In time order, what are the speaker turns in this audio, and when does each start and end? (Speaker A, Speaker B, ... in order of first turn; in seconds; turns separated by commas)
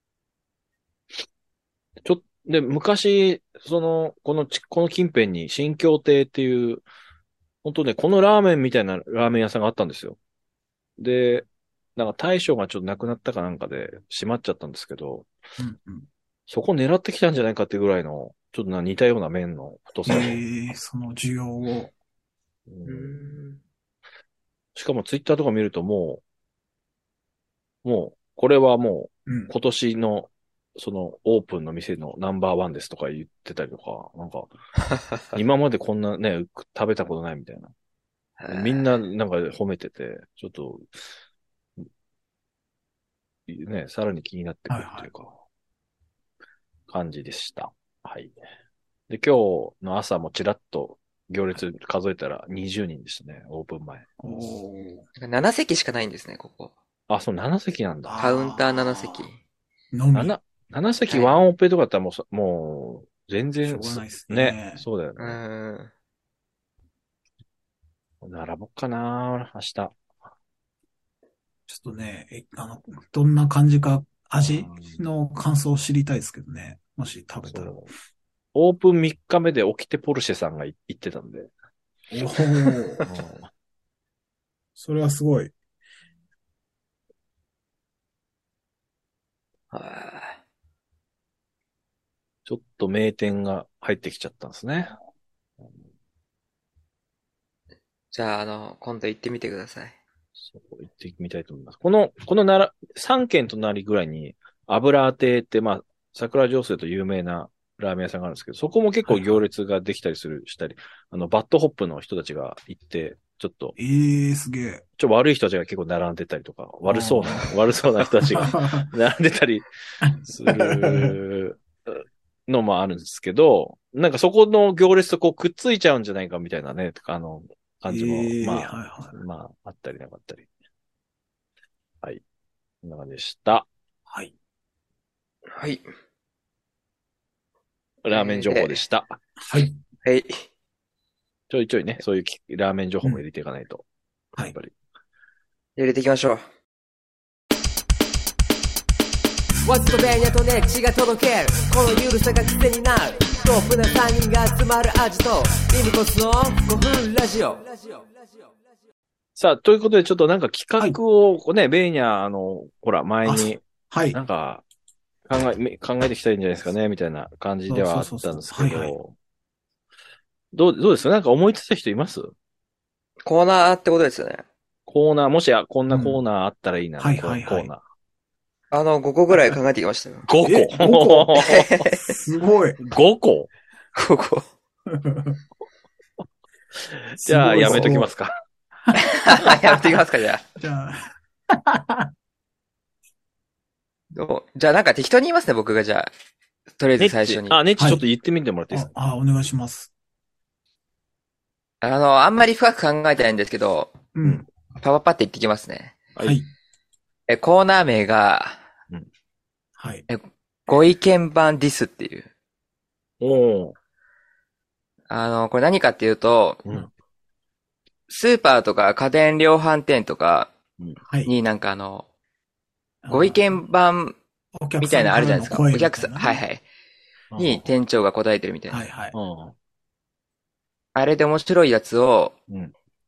Speaker A: 2.0-6.8, Speaker A: 7.6-10.2, Speaker A: 11.0-15.3, Speaker B: 15.6-16.1, Speaker A: 16.5-20.4, Speaker B: 20.1-21.9, Speaker A: 22.7-23.2, Speaker C: 22.9-23.6, Speaker A: 24.7-26.2, Speaker A: 27.8-34.5, Speaker B: 29.3-29.5, Speaker A: 35.3-37.7, Speaker C: 38.4-38.9, Speaker A: 38.5-41.0, Speaker A: 43.5-45.4, Speaker B: 44.7-45.1, Speaker A: 46.9-48.4, Speaker A: 49.1-54.1, Speaker B: 54.2-55.0, Speaker C: 55.2-56.7, Speaker A: 57.1-58.2, Speaker B: 58.1-59.1, Speaker C: 58.2-59.4, Speaker B: 59.9-60.4, Speaker A: 60.1-65.4, Speaker C: 61.1-61.4, Speaker B: 63.6-64.8, Speaker C: 65.2-65.9, Speaker A: 68.2-70.0, Speaker B: 71.7-77.8, Speaker A: 74.4-75.0, Speaker A: 77.5-77.9, Speaker A: 78.5-81.5, Speaker B: 82.1-83.0, Speaker A: 83.0-83.5, Speaker B: 84.8-85.5, Speaker C: 89.7-90.4, Speaker A: 92.5-94.9, Speaker C: 98.1-100.0, Speaker A: 100.4-113.7, Speaker B: 109.0-109.4, Speaker B: 113.8-114.8, Speaker A: 115.0-119.7, Speaker B: 116.9-118.9, Speaker B: 120.0-121.2, Speaker A: 120.3-130.5, Speaker B: 127.9-129.2, Speaker A: 132.8-133.7, Speaker C: 135.5-135.8, Speaker A: 138.0-139.2, Speaker C: 138.1-138.8, Speaker B: 139.5-139.7, Speaker C: 140.0-140.4, Speaker A: 141.5-143.8, Speaker C: 145.8-146.4, Speaker D: 149.7-157.8, Speaker A: 159.3-164.6, Speaker B: 163.2-164.2, Speaker A: 165.3-169.1, Speaker B: 167.7-168.9, Speaker A: 170.5-172.3, Speaker C: 173.2-174.4, Speaker A: 174.9-177.8, Speaker B: 175.9-176.2, Speaker B: 177.0-177.7, Speaker C: 178.7-180.3, Speaker A: 180.3-181.8, Speaker B: 180.4-181.4, Speaker C: 181.4-182.0, Speaker B: 181.9-182.8, Speaker A: 182.8-183.5, Speaker C: 183.9-184.5, Speaker B: 184.9-185.4, Speaker A: 187.0-188.3, Speaker B: 187.2-188.1, Speaker B: 188.9-189.9, Speaker C: 188.9-190.4, Speaker B: 190.6-192.1, Speaker C: 194.1-196.1, Speaker C: 196.8-197.6, Speaker A: 197.0-198.9, Speaker B: 198.7-199.9, Speaker C: 201.8-203.9, Speaker B: 204.1-204.4, Speaker C: 204.8-206.0, Speaker B: 206.2-206.5, Speaker C: 207.3-208.6, Speaker B: 209.8-210.0, Speaker C: 210.1-212.3, Speaker A: 213.2-213.7, Speaker C: 215.1-216.6, Speaker C: 218.1-220.5, Speaker C: 221.2-222.1, Speaker B: 223.0-223.6, Speaker C: 223.1-224.2, Speaker B: 224.6-226.4, Speaker C: 224.8-226.6, Speaker A: 227.3-227.7, Speaker C: 227.4-228.8, Speaker B: 228.7-229.2, Speaker A: 229.1-229.5, Speaker C: 230.9-232.3